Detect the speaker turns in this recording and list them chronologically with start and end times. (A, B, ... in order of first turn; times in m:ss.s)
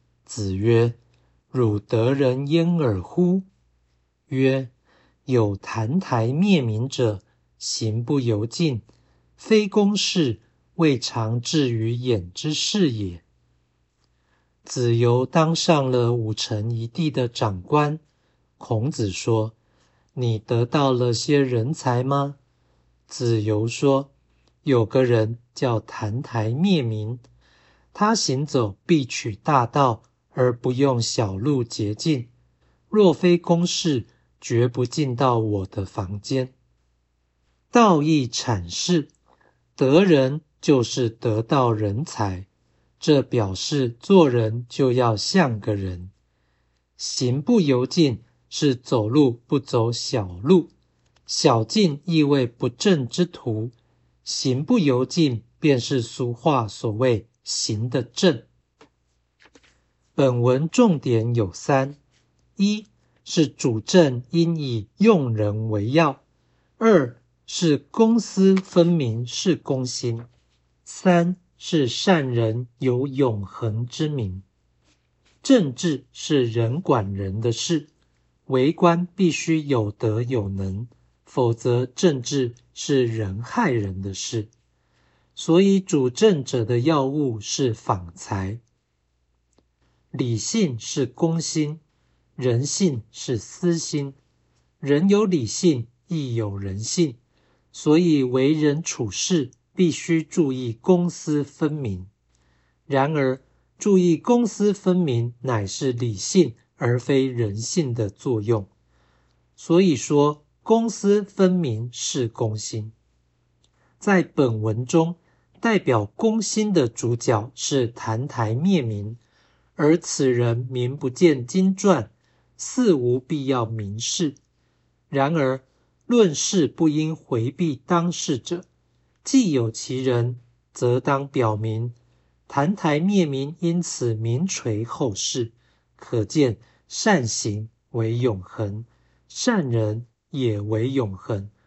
0:00.2-0:01.0 A
0:01.5-0:03.5 A
0:04.3-0:04.7 A
0:05.2-0:08.8 A
0:09.4-0:13.2 A
0:14.6-0:18.0 A
0:18.6-0:19.6 A
0:20.1-0:22.4 A
0:23.1-0:24.1 A
0:24.6-0:27.2 A
0:27.9-0:32.3 A
0:32.9-0:36.5 A
0:37.7-0:39.1 A
0:39.8-0:42.5 A
0:43.0-0:46.1 A
0:47.0-0:50.7 A
0:51.2-0:53.7 A
0:54.2-0:58.5 A
1:00.2-1:02.0 A
1:02.6-1:06.2 A
1:06.8-1:10.3 A
1:10.8-1:14.4 A
1:15.4-1:17.9 A
1:18.5-1:24.5 A
1:25.4-1:28.6 A
1:30.1-1:31.8 A
1:32.4-1:34.2 A
1:34.8-1:37.2 A
1:37.7-1:42.1 A
1:42.9-1:48.7 A
1:49.6-1:52.9 A
1:54.0-1:59.2 A
1:59.8-2:04.4 A
2:05.1-2:08.7 A
2:09.2-2:12.0 A
2:12.5-2:21.5 A